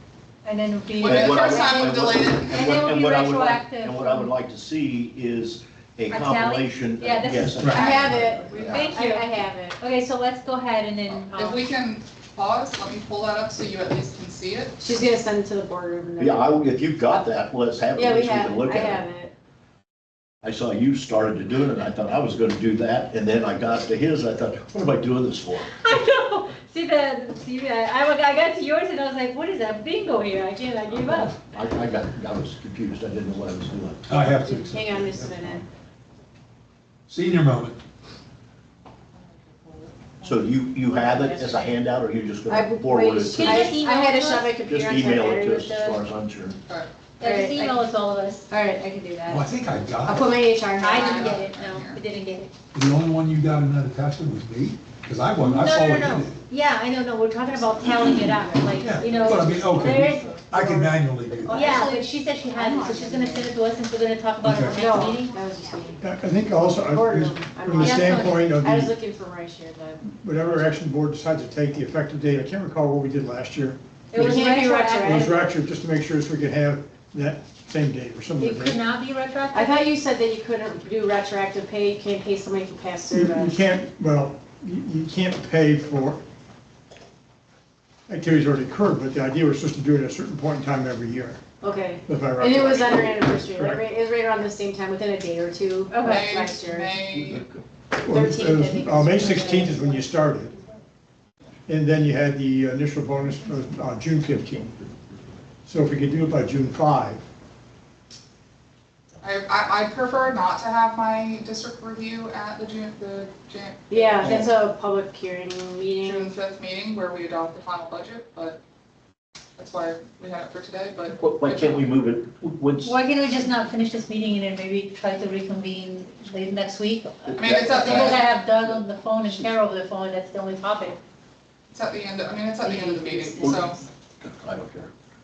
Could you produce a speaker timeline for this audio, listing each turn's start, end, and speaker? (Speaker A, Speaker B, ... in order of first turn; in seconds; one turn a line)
Speaker A: 0.4-2.0
Speaker B: 1.0-2.8
Speaker C: 1.0-8.9
Speaker A: 2.5-4.3
Speaker A: 6.1-11.6
Speaker D: 7.6-7.9
Speaker E: 7.7-9.8
Speaker B: 7.7-8.0
Speaker B: 11.1-14.8
Speaker E: 14.8-17.2
Speaker C: 16.2-19.1
Speaker E: 17.9-19.3
Speaker C: 20.4-25.7
Speaker A: 25.7-31.3
Speaker E: 30.6-31.3
Speaker C: 31.2-34.2
Speaker D: 34.0-35.6
Speaker E: 34.1-35.6
Speaker D: 37.1-37.8
Speaker B: 39.1-40.4
Speaker C: 40.2-43.7
Speaker E: 40.8-41.8
Speaker E: 42.5-46.0
Speaker A: 43.4-44.6
Speaker C: 44.6-46.6
Speaker A: 47.2-48.5
Speaker E: 47.2-47.8
Speaker E: 48.5-49.5
Speaker D: 49.3-50.3
Speaker E: 50.0-51.3
Speaker A: 50.8-52.5
Speaker B: 50.8-52.0
Speaker D: 52.7-56.4
Speaker A: 55.4-65.3
Speaker E: 58.8-59.6
Speaker D: 58.8-61.7
Speaker E: 61.4-63.5
Speaker D: 64.4-64.8
Speaker E: 64.7-66.0
Speaker F: 66.0-68.9
Speaker E: 66.8-70.0
Speaker A: 67.8-68.3
Speaker F: 70.0-78.8
Speaker A: 74.1-75.3
Speaker E: 74.1-75.4
Speaker A: 78.4-79.9
Speaker E: 79.5-83.6
Speaker F: 83.1-86.2
Speaker F: 88.1-91.4
Speaker E: 91.6-97.0
Speaker F: 92.0-93.8
Speaker A: 95.9-96.3
Speaker B: 96.0-97.5
Speaker C: 97.0-97.6
Speaker E: 98.0-100.0
Speaker F: 98.0-100.5
Speaker F: 101.7-104.7
Speaker F: 105.6-107.2
Speaker B: 109.2-114.3
Speaker E: 113.9-116.3
Speaker C: 114.2-114.5
Speaker B: 116.0-118.6
Speaker B: 119.6-121.9
Speaker C: 121.1-123.0
Speaker A: 122.8-131.0
Speaker C: 127.3-128.2
Speaker B: 127.3-128.2
Speaker B: 131.7-133.8
Speaker A: 132.7-133.3
Speaker C: 133.4-134.9